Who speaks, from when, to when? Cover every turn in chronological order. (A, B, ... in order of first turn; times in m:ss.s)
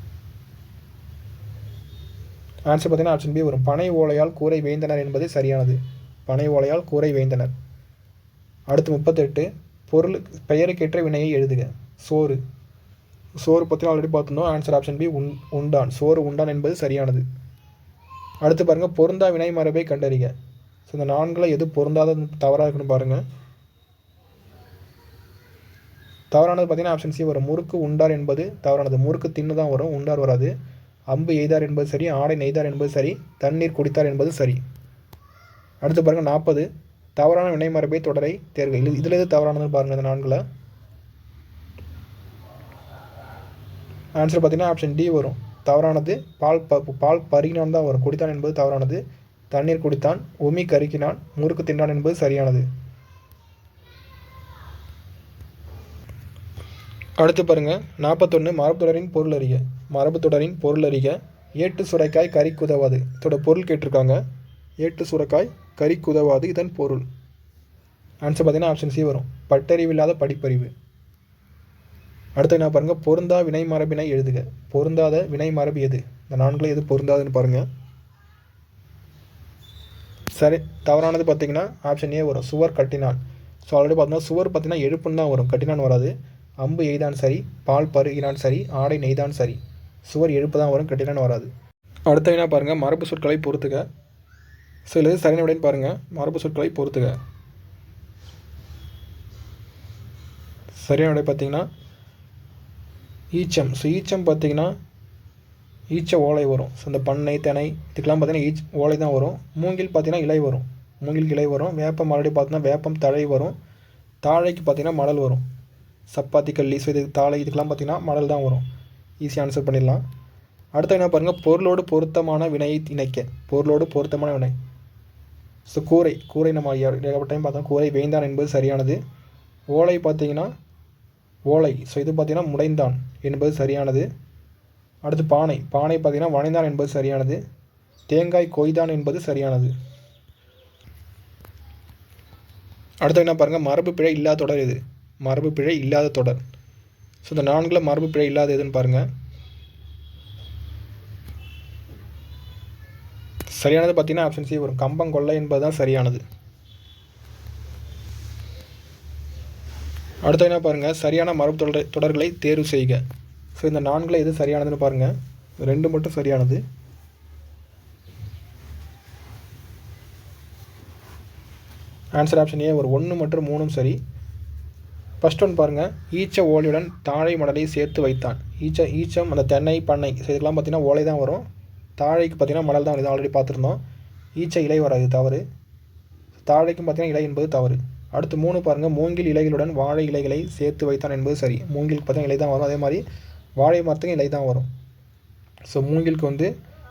0:02.7-0:07.5 A
0:08.7-0:12.4 A
0:13.4-0:17.2 A
0:18.4-0:20.3 A
0:20.9-0:23.2 A
0:26.3-0:30.5 A
0:31.1-0:34.6 A
0:35.8-0:40.4 A
0:44.2-0:49.0 A
0:49.5-0:52.7 A
0:57.2-1:04.2 A
1:04.8-1:07.0 A
1:08.2-1:10.7 A
1:12.4-1:17.6 A
1:20.4-1:31.5 A
1:32.1-1:33.8 A
1:34.9-1:37.2 A
1:40.8-1:41.7 A
1:43.3-1:44.7 A
1:45.9-1:53.6 A
1:54.2-1:55.4 A
1:56.1-1:58.6 A
1:59.2-2:00.0 A
2:00.8-2:04.5 A
2:05.7-2:09.0 A
2:09.7-2:10.5 A
2:11.5-2:14.1 A
2:15.0-2:17.4 A
2:18.1-2:19.7 A
2:23.0-2:26.4 A
2:27.2-2:29.0 A
2:33.5-2:36.2 A
2:40.2-2:43.0 A
2:43.6-2:46.6 A
2:52.1-2:54.0 A
2:55.2-3:01.4 A
3:02.0-3:03.8 A
3:04.4-3:05.4 A
3:06.4-3:13.0 A
3:13.6-3:14.7 A
3:15.7-3:16.5 A